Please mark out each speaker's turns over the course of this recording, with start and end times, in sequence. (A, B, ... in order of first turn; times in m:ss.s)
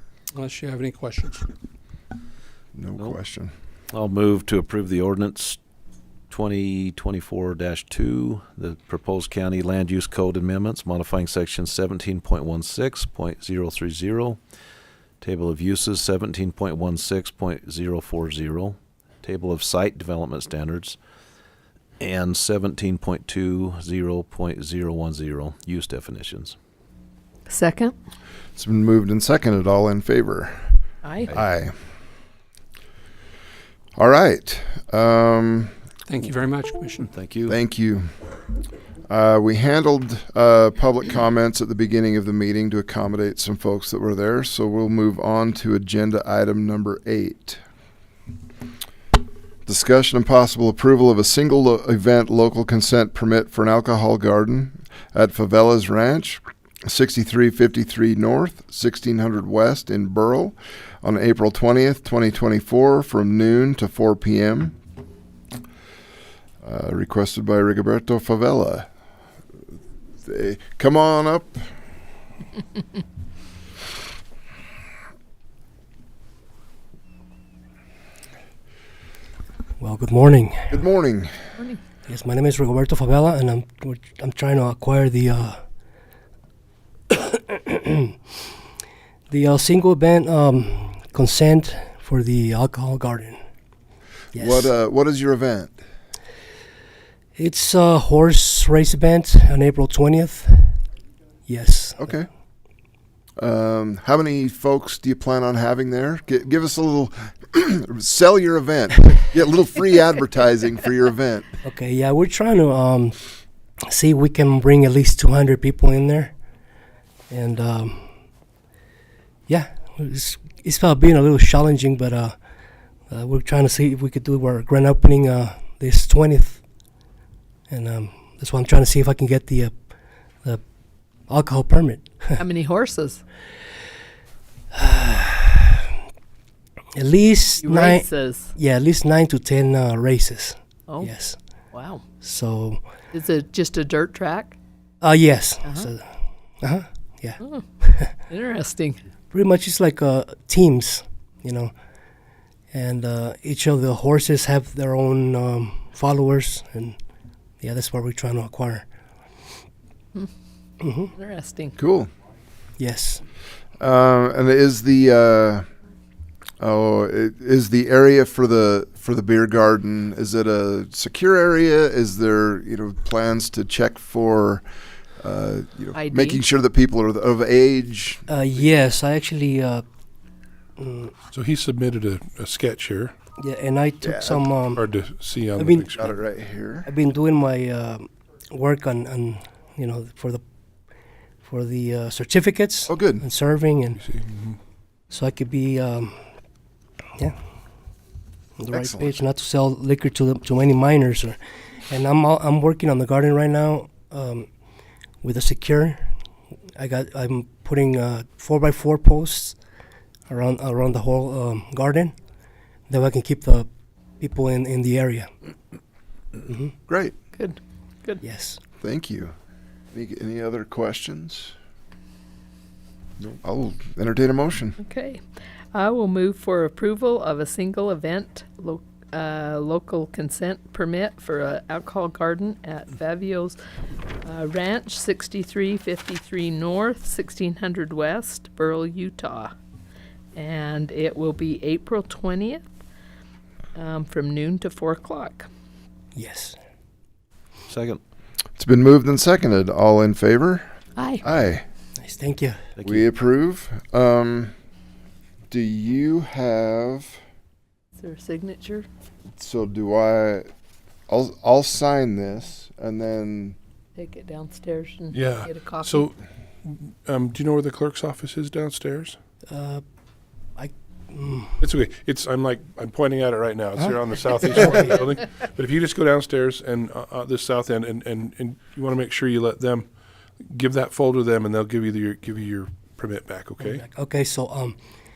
0:00.4-0:01.5 A
0:02.8-0:03.5 B
0:03.9-0:05.6 C
0:06.3-0:14.4 C
0:15.2-0:21.0 C
0:22.0-0:26.6 C
0:27.5-0:27.9 D
0:28.6-0:30.8 B
0:31.0-0:31.3 D
0:31.3-0:31.7 B
0:34.0-0:35.7 B
0:36.1-0:37.1 A
0:37.0-0:37.6 C
0:37.5-0:38.1 B
0:39.1-0:47.6 B
0:49.7-1:04.8 B
1:06.6-1:08.9 B
1:10.2-1:11.7 B
1:19.8-1:20.8 E
1:20.7-1:21.4 B
1:22.1-1:25.6 E
1:27.1-1:28.2 E
1:29.3-1:33.4 E
1:34.3-1:35.8 B
1:34.3-1:34.7 E
1:37.4-1:40.8 E
1:41.5-1:42.2 E
1:42.0-1:42.3 B
1:43.4-1:51.6 B
1:51.6-1:53.2 E
1:53.9-1:56.3 E
1:57.3-1:58.1 E
1:59.5-2:02.4 E
2:03.1-2:06.6 E
2:07.7-2:09.7 E
2:11.3-2:12.4 E
2:12.4-2:13.2 D
2:14.8-2:15.7 E
2:17.0-2:21.4 E
2:17.6-2:18.6 D
2:20.9-2:21.1 D
2:21.7-2:22.0 D
2:22.2-2:22.8 E
2:23.1-2:24.6 D
2:25.0-2:28.1 E
2:25.6-2:25.9 D
2:27.4-2:29.0 D
2:29.3-2:31.7 E
2:32.7-2:37.0 E
2:37.6-2:38.8 E
2:40.8-2:41.1 E
2:41.2-2:41.8 D
2:41.8-2:42.1 B
2:42.8-2:43.2 E
2:43.8-2:45.7 B
2:46.6-2:54.6 B
2:55.2-2:58.2 B
2:56.0-2:56.4 D
2:58.3-2:59.8 E
3:00.8-3:01.1 E
3:01.3-3:03.2 F
3:03.4-3:04.8 E
3:04.0-3:04.4 B
3:04.8-3:06.1 F
3:05.6-3:05.9 E
3:06.0-3:06.9 B
3:06.9-3:10.4 E
3:11.4-3:14.0 E
3:12.9-3:13.2 B
3:14.0-3:14.6 F
3:15.1-3:16.2 E
3:18.6-3:21.4 E
3:18.7-3:19.2 B
3:21.9-3:24.5 E
3:25.2-3:26.1 E
3:26.8-3:29.6 E
3:30.3-3:32.1 E
3:32.9-3:33.7 E
3:34.2-3:35.3 E
3:36.5-3:36.7 E
3:36.9-3:37.2 B
3:37.4-3:38.2 D
3:38.2-3:38.6 E
3:38.8-3:39.3 B
3:39.9-3:41.5 B
3:43.4-3:44.8 B
3:44.8-3:45.2 D
3:45.7-3:53.6 D
3:54.2-3:59.5 D
4:00.4-4:02.6 D
4:03.8-4:05.5 D
4:06.2-4:06.6 E
4:07.7-4:08.0 C
4:08.6-4:10.6 B
4:11.0-4:11.2 D
4:11.2-4:11.6 B
4:12.0-4:12.6 E
4:12.8-4:13.1 C
4:12.8-4:14.5 B
4:15.5-4:17.2 B
4:18.0-4:18.9 D
4:19.4-4:20.5 B
4:21.1-4:23.6 B
4:24.0-4:26.1 D
4:25.1-4:29.2 F
4:29.5-4:29.8 E
4:30.6-4:31.6 E
4:31.6-4:39.9 F
4:34.5-4:35.0 E
4:40.5-4:43.8 F
4:43.6-4:44.8 E